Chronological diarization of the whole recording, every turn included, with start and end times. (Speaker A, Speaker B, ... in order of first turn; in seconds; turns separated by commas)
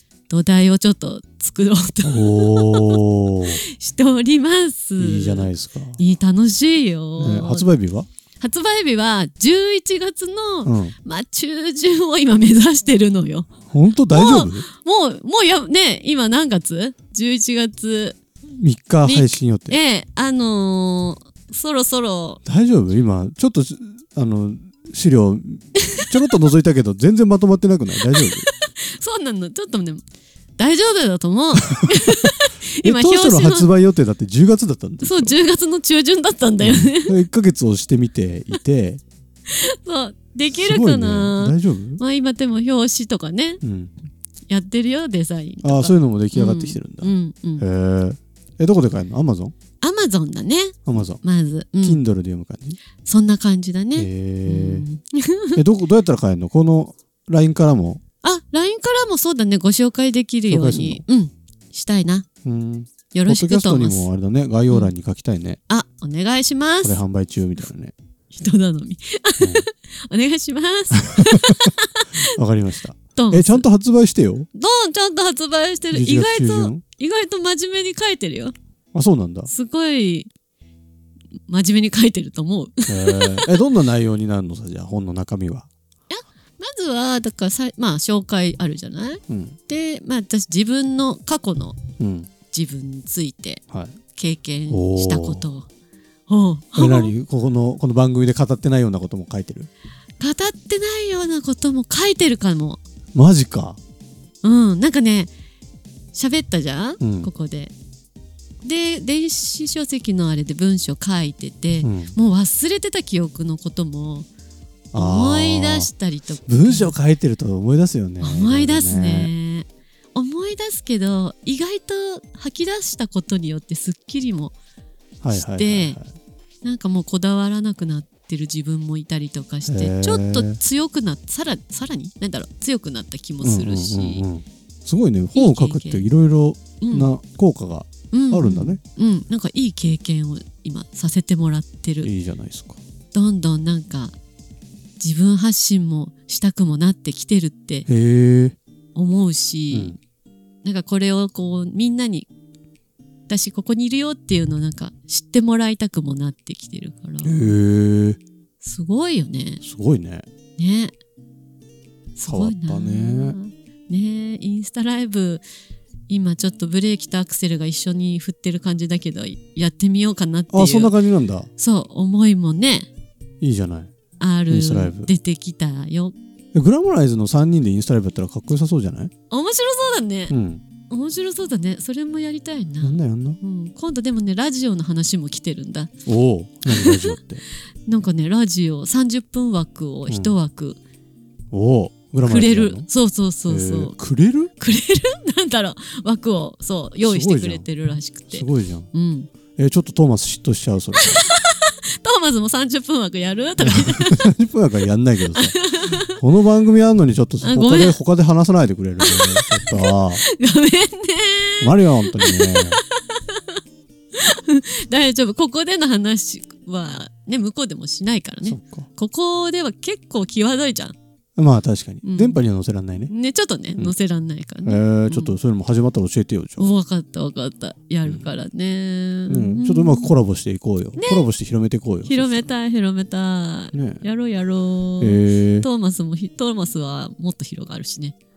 Speaker A: 0.3-7.7, Speaker B: 2.0-3.6, Speaker B: 5.0-6.0, Speaker B: 7.2-8.1, Speaker A: 8.4-13.5, Speaker B: 10.6-10.9, Speaker B: 13.7-14.7, Speaker A: 14.1-18.2, Speaker B: 18.5-19.8, Speaker A: 19.0-22.4, Speaker B: 22.4-28.5, Speaker A: 25.8-26.1, Speaker A: 28.0-30.0, Speaker A: 30.6-33.7, Speaker B: 31.7-32.2, Speaker B: 32.8-35.4, Speaker A: 35.0-37.2, Speaker B: 36.6-39.0, Speaker A: 39.5-43.6, Speaker B: 40.5-42.0, Speaker B: 43.6-43.9, Speaker A: 44.5-47.6, Speaker B: 45.6-49.5, Speaker A: 49.8-52.0, Speaker B: 50.9-51.2, Speaker B: 51.8-52.8, Speaker A: 53.0-55.6, Speaker B: 54.0-54.9, Speaker B: 55.5-58.0, Speaker A: 58.2-62.2, Speaker B: 60.5-61.0, Speaker B: 62.4-65.6, Speaker A: 63.1-64.1, Speaker A: 65.7-67.0, Speaker B: 66.8-67.9, Speaker A: 68.3-72.3, Speaker B: 69.4-69.7, Speaker B: 70.9-74.5, Speaker A: 73.1-73.7, Speaker A: 74.5-78.5, Speaker B: 75.9-76.8, Speaker B: 78.9-79.5, Speaker A: 79.5-80.3, Speaker A: 81.5-83.5, Speaker B: 82.9-85.7, Speaker A: 86.1-91.8, Speaker B: 89.3-89.6, Speaker B: 92.0-92.3, Speaker A: 92.5-93.6, Speaker B: 93.7-94.0, Speaker A: 94.1-95.7, Speaker B: 94.7-95.4, Speaker A: 96.3-97.1, Speaker B: 96.7-99.7, Speaker A: 100.2-102.8, Speaker B: 103.1-103.8, Speaker A: 104.4-105.3, Speaker A: 106.1-107.7, Speaker B: 107.0-107.3, Speaker A: 108.6-114.3, Speaker B: 111.8-112.1, Speaker B: 114.9-115.9, Speaker A: 114.9-116.9, Speaker B: 116.5-119.3, Speaker A: 118.2-124.5, Speaker B: 125.2-126.1, Speaker A: 125.3-126.0, Speaker A: 126.6-134.2, Speaker B: 129.7-130.6, Speaker B: 133.4-138.8, Speaker A: 135.3-136.0, Speaker A: 136.8-137.1, Speaker A: 138.1-142.1, Speaker B: 142.0-142.8, Speaker A: 143.1-144.2, Speaker A: 145.0-147.9, Speaker B: 147.9-148.6, Speaker A: 148.9-150.0, Speaker B: 149.7-150.0, Speaker A: 150.6-152.3, Speaker A: 153.3-157.5, Speaker B: 157.2-158.2, Speaker A: 158.6-159.6, Speaker B: 159.6-160.2, Speaker A: 160.6-160.9, Speaker A: 162.2-165.4, Speaker B: 162.2-163.4, Speaker A: 166.1-170.9, Speaker B: 170.5-171.5, Speaker A: 171.6-172.9, Speaker B: 173.4-173.9, Speaker A: 174.2-176.2, Speaker B: 174.5-175.1, Speaker B: 176.5-179.1, Speaker A: 179.3-180.3, Speaker B: 180.3-180.6, Speaker A: 180.9-185.9, Speaker B: 182.8-183.4, Speaker B: 186.1-187.4, Speaker A: 186.7-187.2, Speaker A: 187.9-190.8, Speaker B: 190.1-190.3, Speaker B: 191.5-192.9, Speaker A: 192.2-193.9, Speaker B: 193.5-194.5, Speaker A: 194.6-199.3, Speaker B: 197.0-197.7, Speaker B: 198.3-198.9, Speaker B: 199.6-201.2, Speaker A: 201.0-204.3, Speaker B: 203.6-210.2, Speaker A: 205.3-206.2, Speaker A: 207.4-208.0, Speaker A: 209.0-213.6, Speaker B: 211.6-212.8, Speaker A: 214.1-220.9, Speaker B: 218.4-218.9, Speaker B: 221.4-223.1, Speaker A: 222.0-222.4, Speaker A: 223.1-225.4, Speaker B: 224.6-226.7, Speaker A: 226.6-230.1, Speaker B: 229.3-232.5, Speaker A: 231.0-231.3, Speaker A: 232.0-238.1, Speaker B: 233.7-234.0, Speaker B: 235.0-235.7